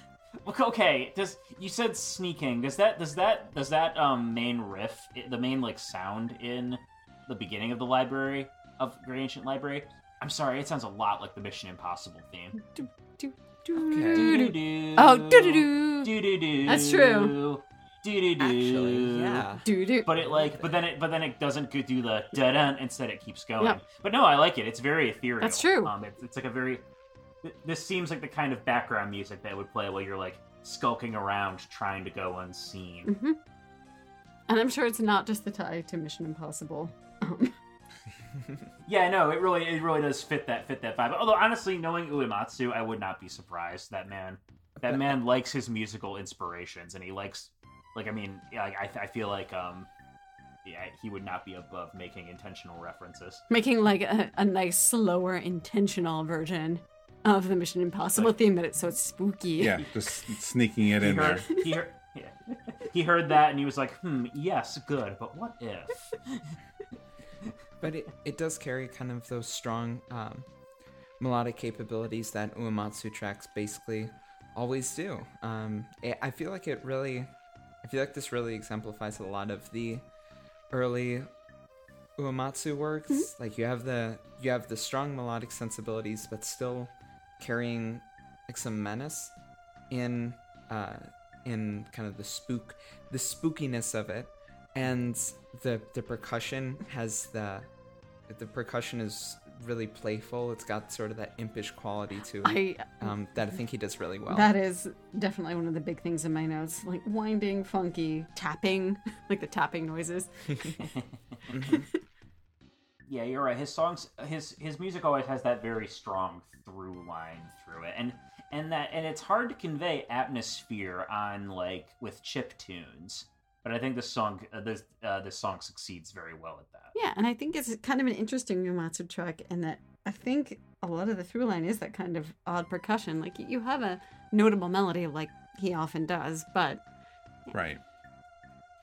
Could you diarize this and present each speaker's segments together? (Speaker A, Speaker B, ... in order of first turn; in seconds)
Speaker A: 0.4-12.6, 14.1-19.5, 20.0-26.8, 27.4-33.1, 38.9-49.9, 50.6-53.4, 61.0-66.5, 110.9-111.4, 113.1-126.9
Speaker B: 12.6-16.1, 16.6-17.4, 19.6-20.1, 25.4-25.9, 33.0-33.4, 34.5-37.5, 53.5-59.8, 102.4-103.1, 104.3-110.9, 111.5-111.9, 126.9-136.8
Speaker C: 13.8-14.4, 18.4-19.7, 38.3-38.7, 44.8-45.1, 67.8-70.5, 71.2-80.0, 80.7-81.3, 82.2-89.3, 89.9-97.7, 98.3-104.5, 111.5-111.9
Speaker D: 59.6-61.4, 137.5-137.8